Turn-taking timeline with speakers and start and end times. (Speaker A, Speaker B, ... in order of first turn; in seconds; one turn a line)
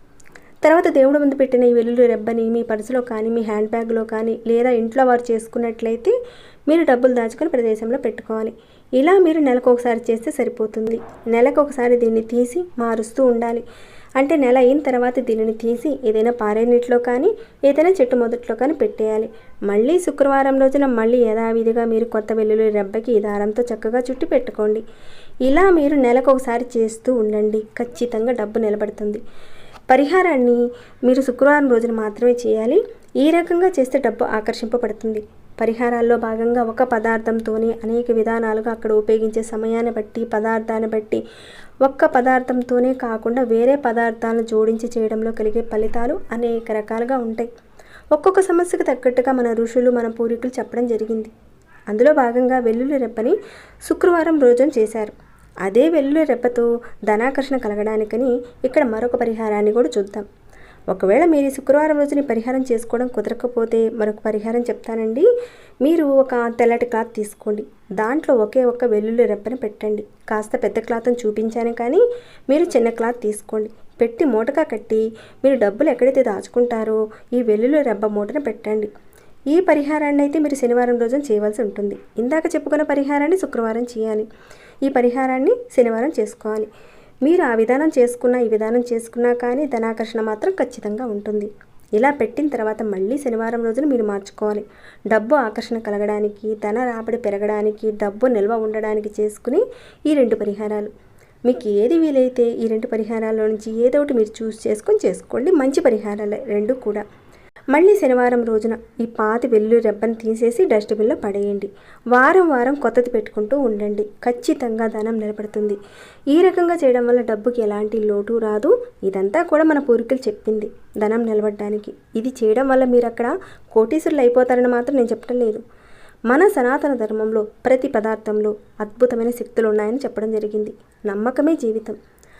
Speaker A: 0.6-6.1
Speaker A: 6.7-13.6
Speaker A: 14.2-24.8
Speaker A: 25.4-29.2
Speaker A: 29.9-41.2
Speaker A: 41.8-47.5
Speaker A: 48.1-51.3
Speaker A: 51.9-60.3
Speaker A: 60.9-65.3
Speaker A: 65.8-78.9
Speaker A: 79.5-84.3
Speaker A: 84.8-86.7
Speaker A: 87.2-100.9
Speaker A: 101.4-107.0
Speaker A: 107.7-115.8
Speaker A: 116.3-125.6
Speaker A: 126.3-132.0